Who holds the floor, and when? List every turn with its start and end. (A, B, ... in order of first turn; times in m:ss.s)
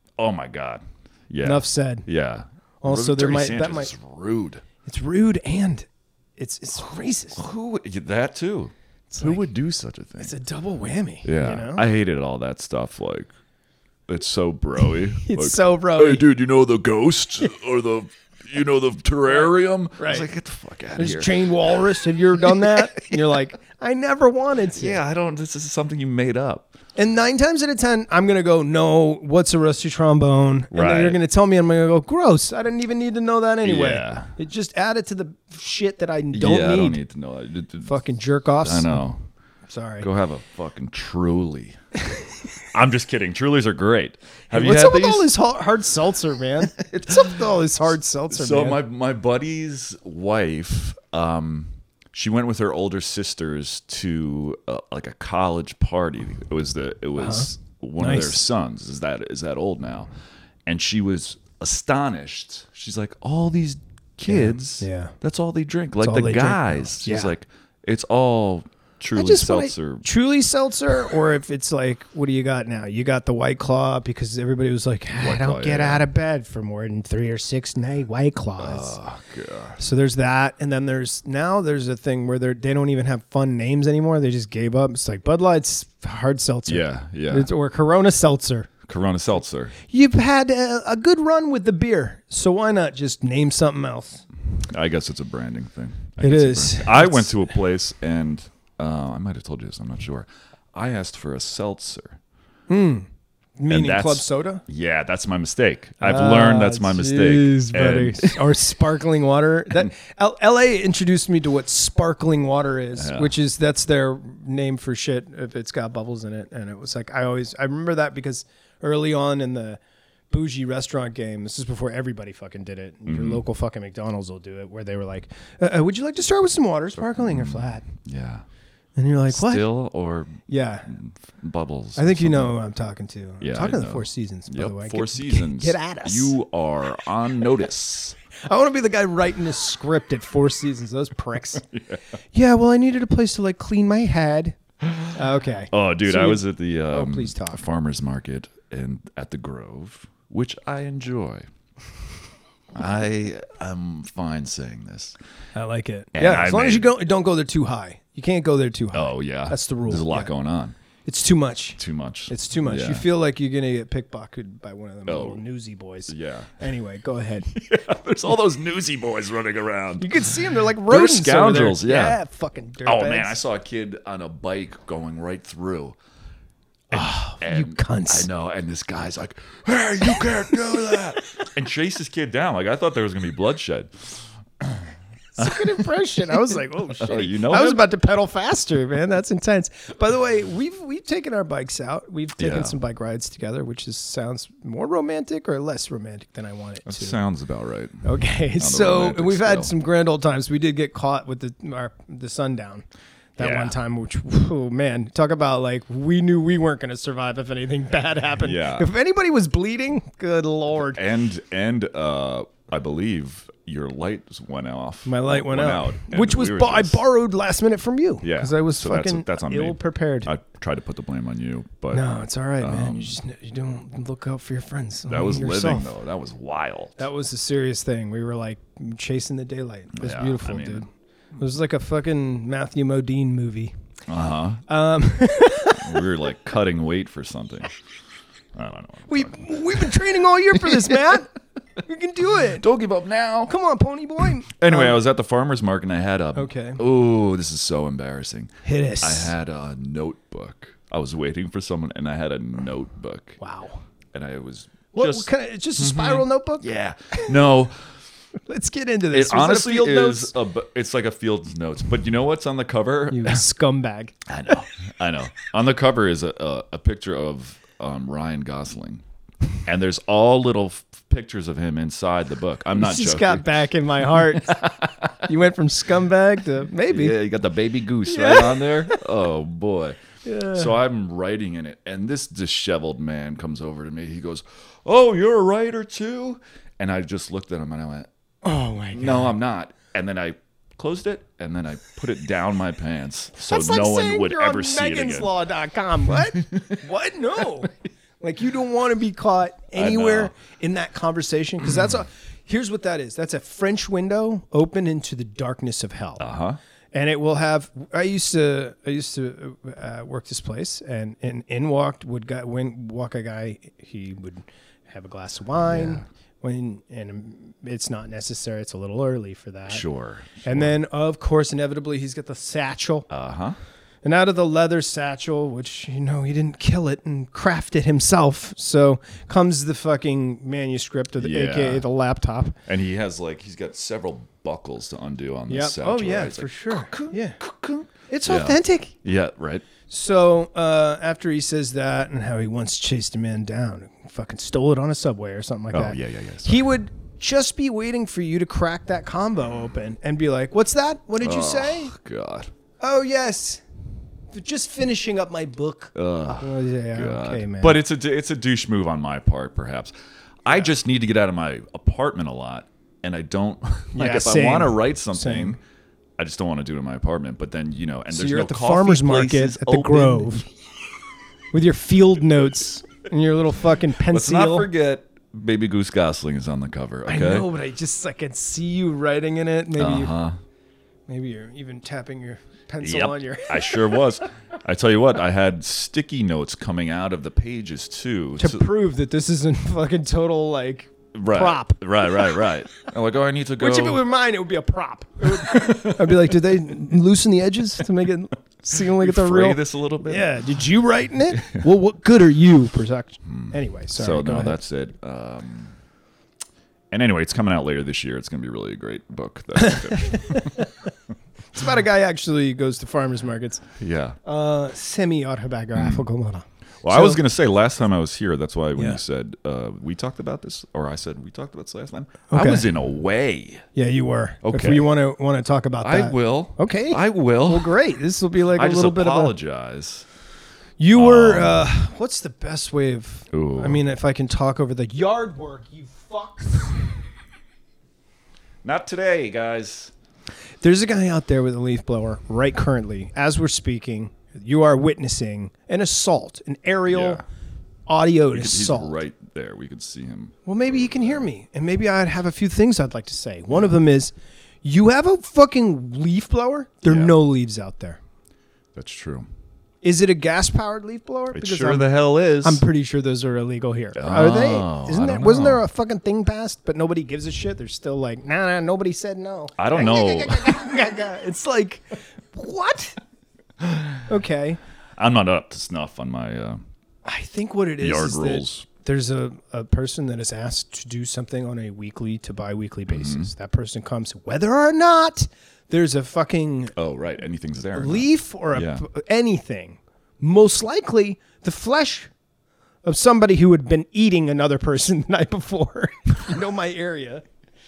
0:00.2-0:04.6 A
0:01.4-0:02.1 B
0:02.8-0:03.9 B
0:04.8-0:07.4 B
0:07.3-0:10.3 A
0:09.1-0:09.4 B
0:10.2-0:11.8 B
0:11.2-0:13.3 A
0:14.1-0:21.8 A
0:15.2-0:16.2 B
0:19.3-0:20.3 B
0:21.0-0:25.0 B
0:22.4-0:23.1 A
0:24.7-0:26.8 A
0:27.0-0:37.0 B
0:30.7-0:31.2 A
0:33.6-0:34.3 A
0:36.3-0:37.9 A
0:37.8-0:39.0 B
0:38.6-0:39.2 A
0:39.7-0:40.1 B
0:40.0-0:41.8 A
0:42.7-0:45.3 A
0:44.5-0:48.8 B
0:46.6-0:47.6 A
0:48.3-1:00.1 A
0:57.2-0:58.4 B
1:00.6-1:10.0 A
1:04.3-1:05.1 B
1:06.0-1:07.3 B
1:09.1-1:19.0 B
1:15.2-1:16.0 A
1:18.6-1:19.8 A
1:19.8-1:28.7 B
1:26.7-1:27.5 A
1:28.9-1:29.8 A
1:29.8-1:34.2 B
1:34.6-1:42.2 A
1:36.2-1:37.4 B
1:42.7-1:44.6 B
1:43.7-1:48.6 A
1:46.0-2:07.8 B
1:52.9-1:53.3 A
2:03.0-2:03.4 A
2:07.1-2:08.4 A
2:09.0-2:09.7 B
2:09.3-2:12.5 A
2:10.5-2:10.9 B
2:12.0-2:16.3 B
2:13.4-2:18.2 A
2:18.4-2:21.6 B
2:21.6-2:22.0 A
2:22.3-2:24.6 B
2:24.8-2:25.2 A
2:25.1-2:27.6 B
2:25.7-2:31.5 A
2:32.7-2:35.2 A
2:35.5-2:40.3 B
2:36.1-2:36.9 A
2:38.9-2:40.8 A
2:41.0-2:47.5 B
2:41.8-2:43.0 A
2:45.1-2:45.4 A
2:46.1-2:46.5 A
2:47.5-2:50.3 A
2:50.0-2:53.4 B
2:50.8-2:52.2 A
2:52.8-2:56.0 A
2:56.9-2:58.3 B
2:56.9-3:05.9 A
3:00.0-3:01.1 B
3:05.3-3:17.2 B
3:07.0-3:07.8 A
3:12.4-3:12.8 A
3:16.8-3:18.0 A
3:18.0-3:22.8 B
3:18.6-3:19.7 A
3:23.4-3:31.0 B
3:23.4-3:23.8 A
3:28.4-3:28.9 A
3:30.8-3:37.0 A
3:35.0-3:40.3 B
3:38.2-3:43.2 A
3:41.9-3:45.9 B
3:45.1-3:47.0 A
3:47.0-3:53.8 B
3:49.9-3:50.8 A
3:54.1-3:54.6 A
3:54.7-3:56.1 B
3:55.7-3:57.7 A
3:58.5-4:01.0 A
3:59.1-4:01.3 B
4:01.8-4:02.6 B
4:02.4-4:03.5 A
4:03.5-4:05.0 B
4:04.4-4:13.4 A
4:06.3-4:06.8 B
4:08.6-4:09.3 B
4:13.4-4:13.8 B
4:14.1-4:17.7 A
4:14.9-4:17.3 B
4:18.5-4:20.3 B
4:19.1-4:23.4 A
4:23.1-4:24.2 B
4:24.3-4:29.0 A
4:29.6-4:35.2 A
4:32.7-4:34.6 B
4:35.2-4:37.2 B
4:36.9-4:48.1 A
4:38.0-4:39.0 B
4:40.2-4:40.7 B
4:48.4-4:49.4 B
4:48.9-4:55.3 A
4:53.5-5:06.2 B
4:56.3-4:56.8 A
4:59.7-5:00.3 A
5:06.2-5:06.6 A
5:06.9-5:19.8 B
5:15.6-5:16.0 A
5:19.7-5:20.7 A
5:20.4-5:23.1 B
5:23.1-5:23.6 A
5:24.0-5:32.6 B
5:31.2-5:31.8 A
5:32.6-5:39.7 A
5:35.5-5:37.4 B
5:38.1-5:38.9 B
5:39.9-5:51.9 B
5:45.7-5:46.6 A
5:51.2-5:52.5 A
5:52.8-5:53.6 B
5:54.3-5:57.8 B
5:55.9-5:59.9 A
6:00.4-6:05.6 A
6:03.9-6:05.6 B
6:06.2-6:10.4 A
6:08.1-6:10.5 B
6:11.5-6:14.7 B
6:14.0-6:17.5 A
6:17.0-6:20.1 B
6:19.8-6:20.4 A
6:21.1-6:24.2 B
6:22.8-6:28.7 A
6:28.4-6:32.6 B
6:31.1-6:34.0 A
6:33.6-6:44.6 B
6:35.4-6:36.3 A
6:38.8-6:40.4 A
6:43.2-6:45.8 A
6:46.9-6:50.7 A
6:49.6-6:50.9 B
6:51.5-6:53.6 B
6:53.8-6:54.2 A
6:54.2-6:57.2 B
6:55.7-6:56.0 A
6:56.8-7:03.6 A
7:02.3-7:02.7 B
7:03.7-7:09.3 B
7:04.4-7:04.8 A
7:05.8-7:07.7 A
7:08.5-7:10.1 A
7:10.8-7:16.9 B
7:10.9-7:11.7 A
7:13.3-7:13.8 A
7:18.6-7:19.9 A
7:20.6-7:27.2 B
7:26.9-7:27.2 A
7:27.9-7:29.0 B
7:28.3-7:31.3 A
7:30.4-7:38.0 B
7:36.9-7:37.2 A
7:38.7-7:39.3 A
7:39.8-7:41.9 B
7:41.3-7:42.6 A
7:42.4-7:53.0 B
7:43.9-7:45.6 A
7:49.6-7:50.6 A
7:53.6-7:54.0 A
7:54.1-7:54.6 B
7:55.0-7:56.6 A
7:57.0-8:06.7 B
7:57.8-7:58.7 A
8:02.9-8:03.3 A
8:06.8-8:08.8 A
8:07.8-8:12.1 B
8:12.8-8:17.2 B